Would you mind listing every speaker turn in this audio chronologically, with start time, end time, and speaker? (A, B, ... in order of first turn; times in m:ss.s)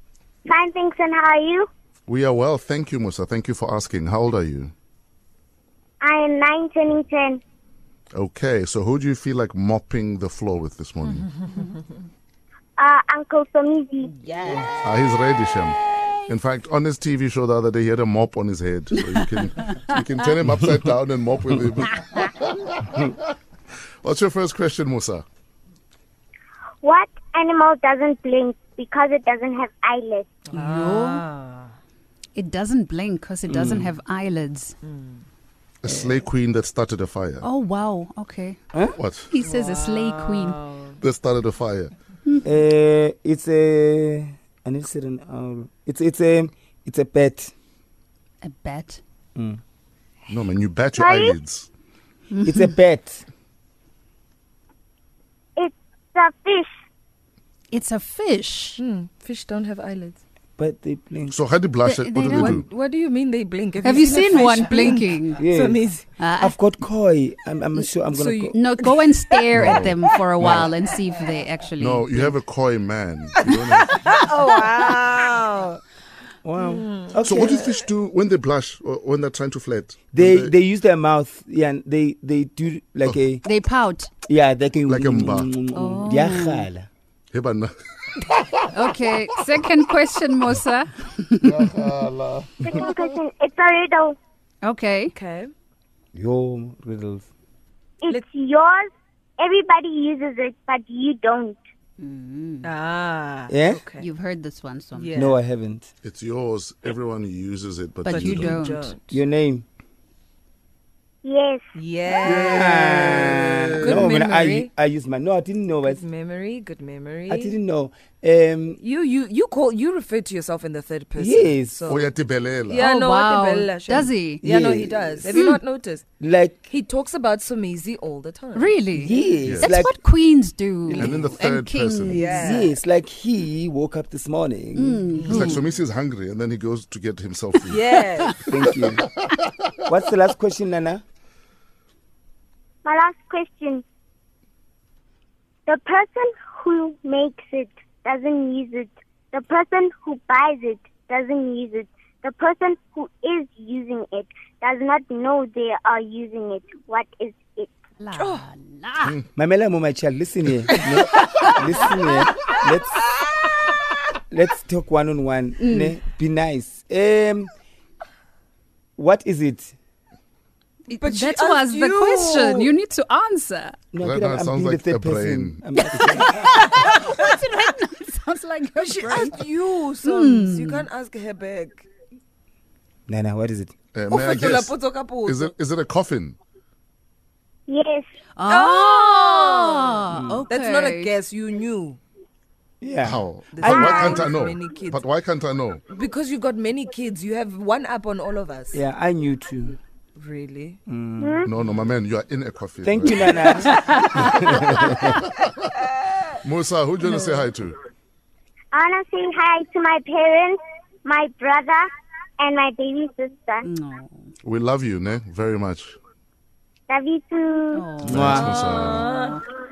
0:00.4-0:01.7 A
0:02.1-0:04.7 B
0:06.0-0:07.4 A
0:08.1-0:11.3 B
0:12.8-0:14.1 A
0:14.1-0:15.1 C
0:14.8-0:23.3 B
0:24.0-0:25.2 B
0:26.8-0:30.3 A
0:30.4-0:31.7 C
0:30.5-0:31.2 D
0:32.3-0:34.7 D
0:33.5-0:33.9 E
0:34.8-0:35.2 C
0:35.8-0:37.5 B
0:37.4-0:38.6 D
0:39.0-0:39.3 B
0:39.3-0:40.6 D
0:39.4-0:41.0 C
0:41.0-0:41.9 B
0:42.4-0:47.5 E
0:48.4-0:49.0 D
0:50.3-0:51.7 B
0:51.0-0:51.3 A
0:52.3-0:52.7 D
0:52.4-0:53.2 E
0:55.6-0:56.7 A
0:57.7-0:58.8 D
0:58.8-1:00.2 C
1:00.6-1:01.3 E
1:01.3-1:02.6 B
1:01.8-1:02.6 D
1:02.3-1:06.1 C
1:03.8-1:05.4 D
1:05.4-1:05.8 E
1:06.2-1:06.5 D
1:06.4-1:08.6 E
1:08.1-1:09.8 C
1:08.5-1:12.4 D
1:09.5-1:10.7 B
1:11.8-1:14.0 B
1:13.8-1:15.8 C
1:16.4-1:17.7 E
1:16.6-1:17.5 C
1:17.2-1:20.5 B
1:20.1-1:23.4 E
1:23.4-1:24.1 D
1:24.3-1:26.9 E
1:24.9-1:25.5 B
1:25.7-1:26.7 D
1:27.3-1:28.5 B
1:28.7-1:31.7 D
1:31.4-1:33.1 B
1:32.6-1:34.2 A
1:34.6-1:35.1 D
1:35.1-1:35.5 C
1:36.1-1:37.2 E
1:38.0-1:41.6 A
1:42.0-1:42.7 D
1:42.6-1:44.1 C
1:43.5-1:43.8 E
1:44.0-1:45.3 D
1:45.0-1:45.4 C
1:45.1-1:45.9 E
1:46.0-1:48.6 B
1:48.0-1:49.0 D
1:48.1-1:49.2 C
1:49.1-1:49.6 E
1:51.2-1:51.7 A
1:51.7-1:54.7 C
1:52.1-1:56.0 E
1:53.5-1:54.0 B
1:55.8-1:57.6 C
1:57.3-1:58.8 E
1:58.8-2:02.1 C
2:01.2-2:01.9 E
2:01.9-2:02.8 B
2:02.7-2:06.0 C
2:02.8-2:04.4 D
2:04.4-2:05.4 E
2:06.2-2:06.7 E
2:06.7-2:08.8 C
2:08.5-2:12.7 D
2:09.0-2:10.0 E
2:09.4-2:09.8 B
2:10.9-2:11.3 E
2:11.0-2:12.3 B
2:12.1-2:12.7 C
2:12.4-2:15.2 E
2:14.8-2:15.6 D
2:15.2-2:15.6 C
2:15.2-2:17.8 B
2:17.7-2:18.3 C
2:18.5-2:19.0 E
2:19.8-2:21.0 E
2:22.8-2:23.8 A
2:25.7-2:37.7 A
2:38.0-2:39.0 D
2:38.1-2:39.1 C
2:39.3-2:43.0 E
2:44.3-2:47.5 E
2:45.6-2:46.0 D
2:49.0-2:49.7 E
2:50.9-2:53.8 D
2:51.0-2:52.7 C
2:53.9-2:56.5 E
2:54.0-2:55.6 B
2:55.8-2:59.4 D
2:58.8-3:01.8 C
3:00.0-3:00.9 D
3:03.1-3:03.7 E
3:03.9-3:06.4 B
3:04.1-3:05.5 C
3:07.7-3:08.0 A
3:08.4-3:11.1 D
3:08.5-3:12.0 C
3:10.1-3:10.4 E
3:12.8-3:14.2 E
3:13.0-3:15.8 B
3:13.5-3:15.0 C
3:15.9-3:18.8 C
3:18.7-3:19.8 E
3:20.2-3:20.8 C
3:20.9-3:21.4 E
3:21.2-3:21.5 A
3:21.4-3:23.7 B
3:22.8-3:23.7 E
3:23.7-3:25.0 D
3:24.3-3:25.5 B
3:26.4-3:27.8 B
3:28.7-3:33.7 A
3:33.6-3:34.3 D
3:34.4-3:36.0 B
3:36.9-3:37.8 A
3:37.7-3:39.4 D
3:38.0-3:39.1 B
3:38.0-3:38.6 E
3:38.5-3:39.4 C